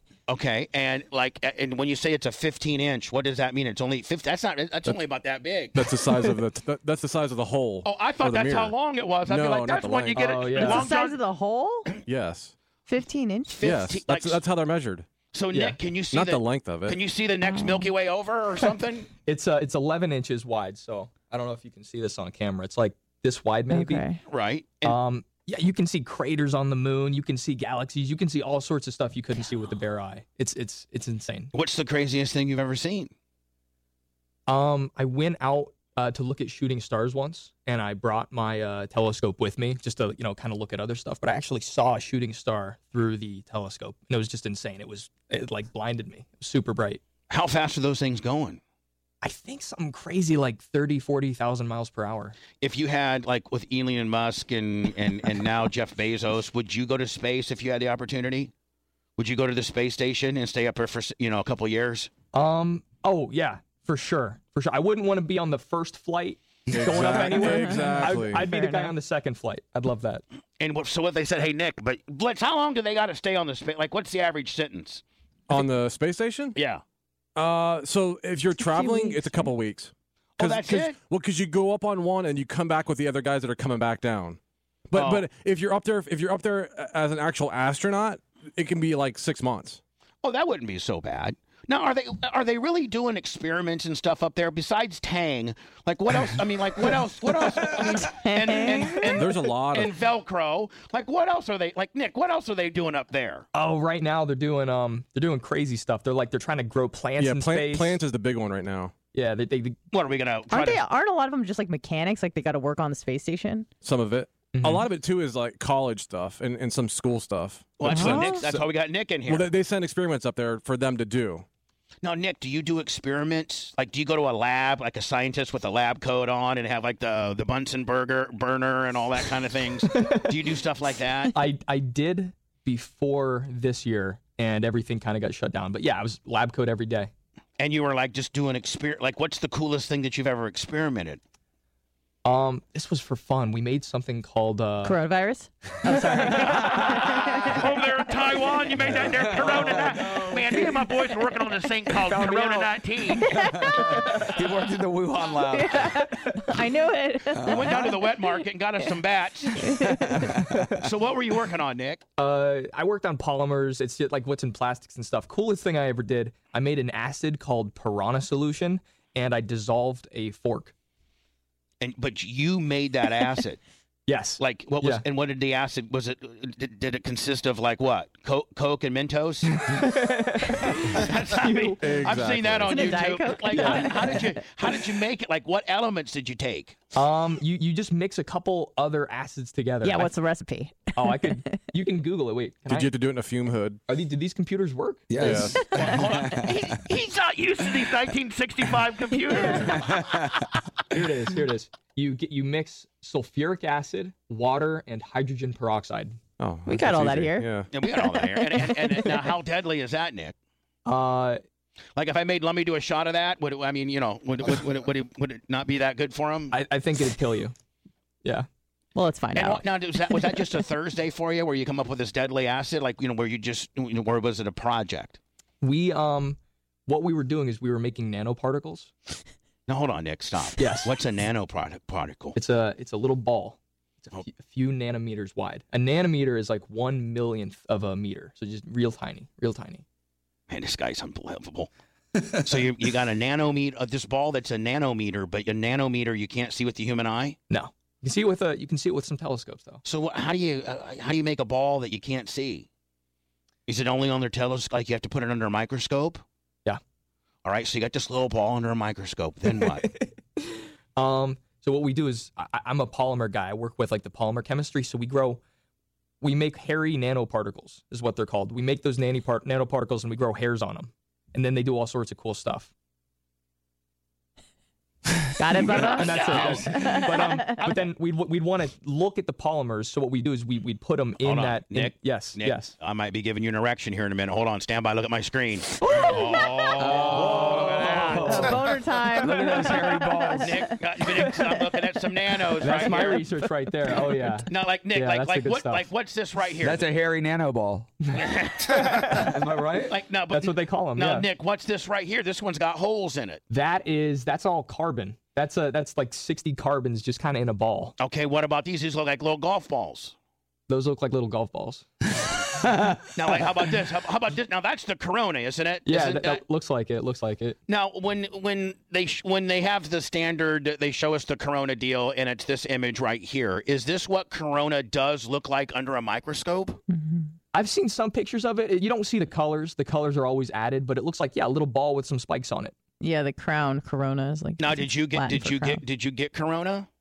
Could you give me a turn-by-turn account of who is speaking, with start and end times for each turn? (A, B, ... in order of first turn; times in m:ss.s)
0:00.3-0:05.8 A
0:05.8-0:08.7 B
0:07.8-0:11.2 A
0:09.3-0:10.6 B
0:10.1-0:10.8 C
0:10.6-0:12.0 D
0:12.1-0:12.5 B
0:12.9-0:13.6 D
0:13.6-0:14.4 A
0:13.6-0:15.1 B
0:15.3-0:19.1 A
0:16.1-0:17.0 B
0:17.4-0:17.9 D
0:19.3-0:24.0 C
0:23.7-0:24.2 D
0:24.3-0:25.0 A
0:24.8-0:31.5 C
0:31.5-0:33.1 A
0:34.5-0:47.0 C
0:47.3-0:48.6 A
0:49.2-0:52.4 C
0:52.6-0:58.5 A
0:59.2-1:02.1 A
1:02.3-1:10.2 C
1:06.7-1:08.5 B
1:07.4-1:08.9 D
1:10.6-1:15.0 A
1:15.5-1:16.6 B
1:16.6-1:16.8 A
1:17.4-1:24.4 B
1:18.6-1:19.5 D
1:20.4-1:21.0 A
1:24.9-1:29.8 B
1:24.9-1:25.2 A
1:30.2-1:43.4 A
1:38.2-1:39.2 D
1:39.1-1:39.9 B
1:43.5-1:48.0 C
1:47.2-1:48.9 B
1:49.1-1:49.8 C
1:49.9-1:50.8 A
1:50.5-1:53.7 D
1:53.8-1:58.7 B
1:54.5-1:54.9 C
1:57.8-1:59.5 A
1:57.9-1:58.4 D
1:59.3-2:01.4 B
2:02.0-2:11.3 A
2:09.9-2:10.3 C
2:11.3-2:17.1 C
2:17.6-2:21.2 A
2:22.2-2:25.0 C
2:24.8-2:27.6 D
2:26.4-2:33.4 A
2:29.3-2:29.9 E
2:32.1-2:32.7 C
2:33.2-2:34.3 D
2:33.4-2:36.1 E
2:35.5-2:38.4 D
2:37.4-2:37.7 E
2:37.4-2:39.9 A
2:39.5-2:40.3 D
2:40.1-2:40.6 E
2:40.8-2:42.0 A
2:42.2-2:50.7 C
2:51.8-2:53.6 A
2:54.1-2:55.0 C
2:54.4-2:59.7 A
2:59.5-3:01.8 C
3:00.8-3:06.8 A
3:01.8-3:03.0 B
3:02.7-3:04.4 D
3:03.5-3:04.1 C
3:06.9-3:10.1 C
3:09.8-3:11.4 D
3:10.9-3:12.9 C
3:12.7-3:13.8 B
3:13.9-3:15.7 C
3:15.1-3:16.5 E
3:15.2-3:15.6 B
3:15.7-3:19.9 A
3:19.4-3:19.7 D
3:19.7-3:20.3 E
3:20.9-3:26.2 C
3:26.4-3:27.7 B
3:26.7-3:29.2 D
3:27.7-3:30.4 A
3:30.9-3:31.4 C
3:32.0-3:36.5 A
3:36.5-3:37.5 C
3:38.9-3:40.4 D
3:39.4-3:45.2 A
3:45.6-3:48.9 C
3:49.7-3:52.4 A
3:50.6-3:50.9 C
3:52.4-3:59.8 C
4:00.5-4:01.7 A
4:02.3-4:07.4 A
4:07.5-4:09.8 C
4:09.8-4:12.7 A
4:13.7-4:16.2 A
4:17.4-4:19.9 A
4:19.9-4:25.4 C
4:26.2-4:32.7 C
4:35.4-4:37.6 D
4:35.7-4:42.7 C
4:35.8-4:37.7 A
4:41.2-4:48.5 A
4:46.8-4:48.6 E
4:46.9-4:48.6 C
4:48.1-4:50.7 D
4:49.2-4:50.4 C
4:49.2-4:50.3 E
4:50.4-4:53.2 A
4:52.6-4:55.9 C
4:54.5-4:56.8 A
4:56.6-5:00.0 E
4:58.1-4:59.3 A
4:58.8-4:59.3 C
4:59.9-5:03.4 A
5:00.3-5:01.3 C
5:03.5-5:08.0 C
5:08.0-5:10.1 A
5:10.7-5:11.9 C
5:13.1-5:16.4 A
5:15.9-5:17.6 C
5:17.7-5:26.8 A
5:26.9-5:27.3 D
5:27.5-5:32.7 C
5:33.0-5:35.8 D
5:34.6-5:36.9 A